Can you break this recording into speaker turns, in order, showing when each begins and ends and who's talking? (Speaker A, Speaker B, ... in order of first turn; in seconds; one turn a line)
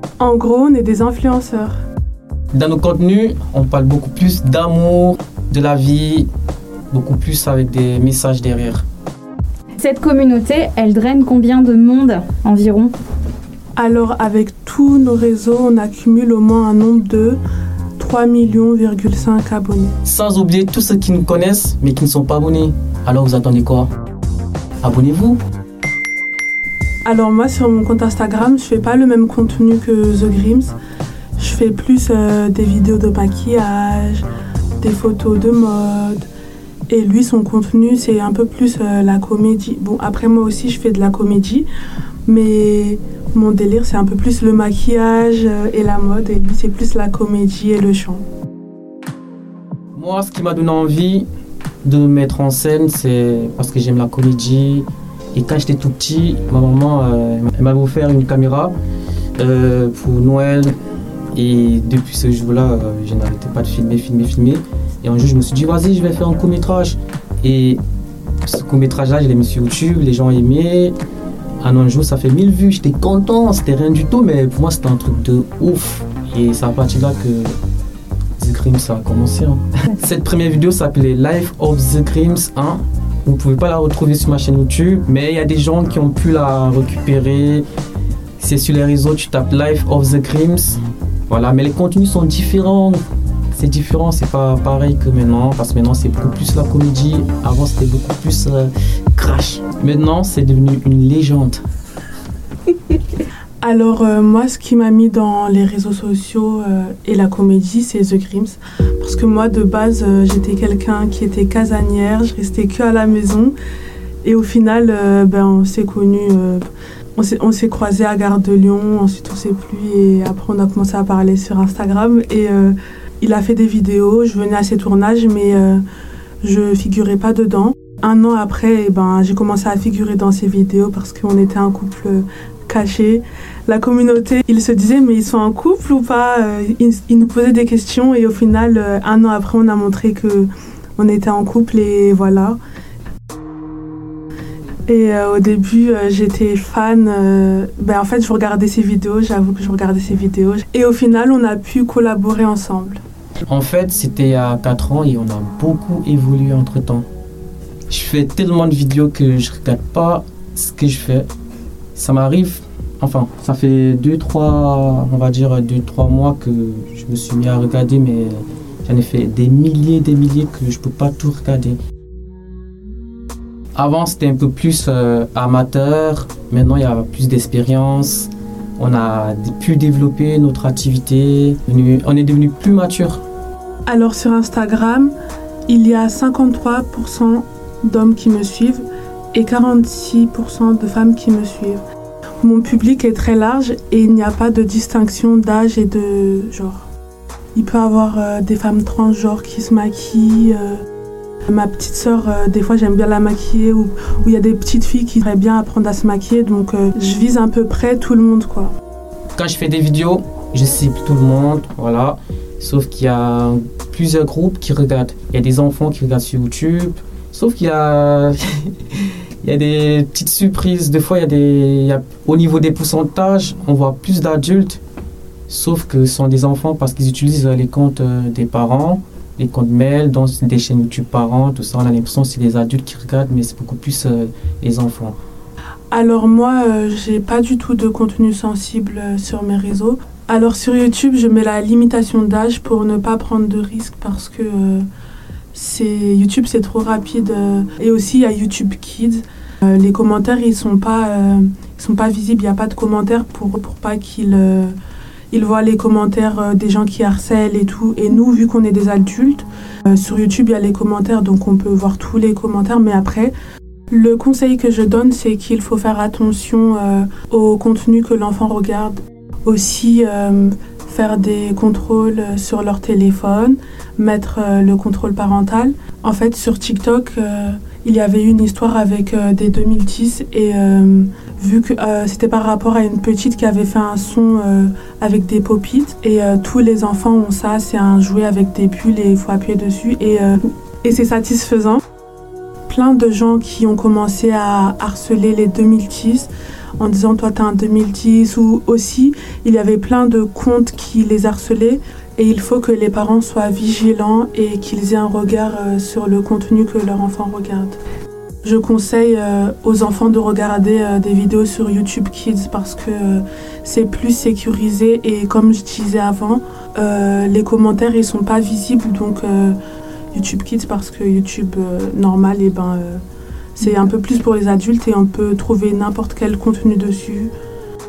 Speaker A: 0.2-1.8
Speaker B: 2.5-6.3
Speaker B: 6.9-8.8
Speaker C: 9.8-12.9
Speaker A: 13.8-17.4
Speaker A: 18.0-19.9
Speaker B: 20.0-23.9
Speaker B: 24.8-25.4
Speaker A: 27.0-30.7
Speaker A: 31.4-34.2
Speaker A: 34.8-36.3
Speaker A: 36.9-41.6
Speaker A: 42.3-48.2
Speaker B: 49.9-51.3
Speaker B: 51.8-58.7
Speaker B: 59.4-60.7
Speaker B: 61.3-67.8
Speaker B: 68.4-71.0
Speaker B: 71.6-77.6
Speaker B: 78.4-87.6
Speaker B: 88.4-93.0
Speaker B: 93.5-101.6
Speaker A: 103.6-113.5
Speaker A: 114.2-125.8
Speaker A: 126.4-142.6
Speaker A: 144.9-153.0
Speaker B: 153.5-157.1
Speaker B: 157.9-161.3
Speaker B: 161.9-171.8
Speaker B: 173.7-183.2
Speaker A: 183.8-185.1
Speaker A: 185.7-191.8
Speaker A: 192.4-196.9
Speaker A: 197.5-200.8
Speaker A: 201.4-208.7
Speaker B: 209.3-224.8
Speaker B: 225.5-235.2
Speaker A: 235.9-244.9
Speaker A: 245.5-254.8
Speaker A: 255.3-263.3
Speaker A: 263.9-291.8
Speaker A: 292.7-307.8
Speaker A: 308.4-319.6
Speaker A: 320.1-323.0
Speaker A: 323.6-327.3